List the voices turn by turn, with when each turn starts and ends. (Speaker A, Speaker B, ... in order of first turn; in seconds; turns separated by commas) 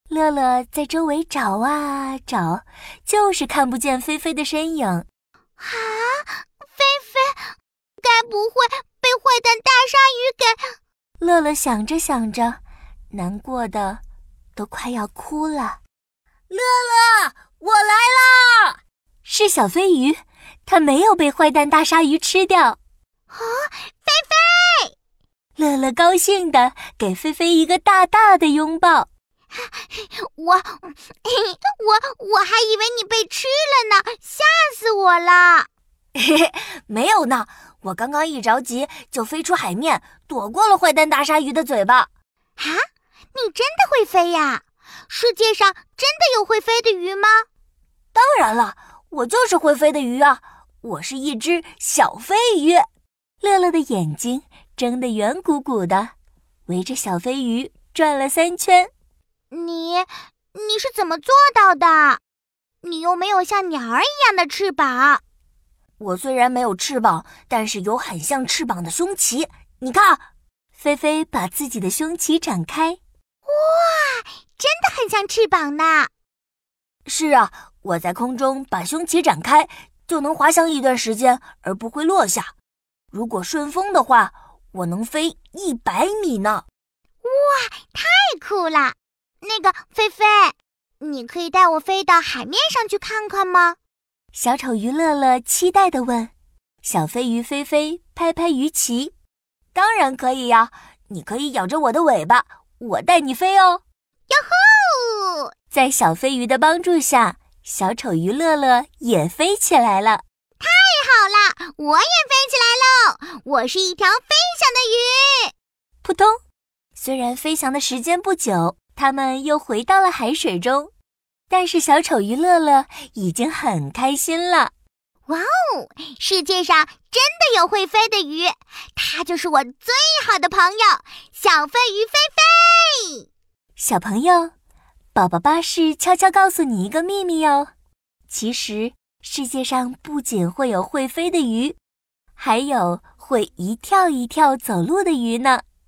Speaker A: 0.1-5.0, Speaker B: 5.6-7.5, Speaker B: 8.0-10.7, Speaker A: 11.2-12.6, Speaker A: 13.1-14.0, Speaker A: 14.6-15.8, Speaker A: 16.5-22.8, Speaker B: 23.3-24.9, Speaker A: 25.6-29.1, Speaker B: 29.5-35.7, Speaker A: 36.1-42.1, Speaker B: 43.3-47.5, Speaker A: 48.1-52.8, Speaker A: 53.4-56.1, Speaker A: 56.7-58.9, Speaker B: 59.5-62.2, Speaker B: 62.8-65.2, Speaker A: 66.0-73.0, Speaker B: 73.5-76.1, Speaker A: 77.0-82.5, Speaker A: 83.1-86.6, Speaker B: 87.2-93.8, Speaker A: 94.3-96.3, Speaker A: 96.8-99.1, Speaker A: 99.7-103.8, Speaker B: 104.3-105.5, Speaker A: 105.7-110.2, Speaker B: 110.6-115.5, Speaker A: 116.0-116.4, Speaker A: 117.0-120.9, Speaker A: 121.5-124.7, Speaker B: 125.3-133.2, Speaker A: 133.8-134.5, Speaker A: 135.1-137.7, Speaker A: 138.3-141.8, Speaker A: 142.4-145.6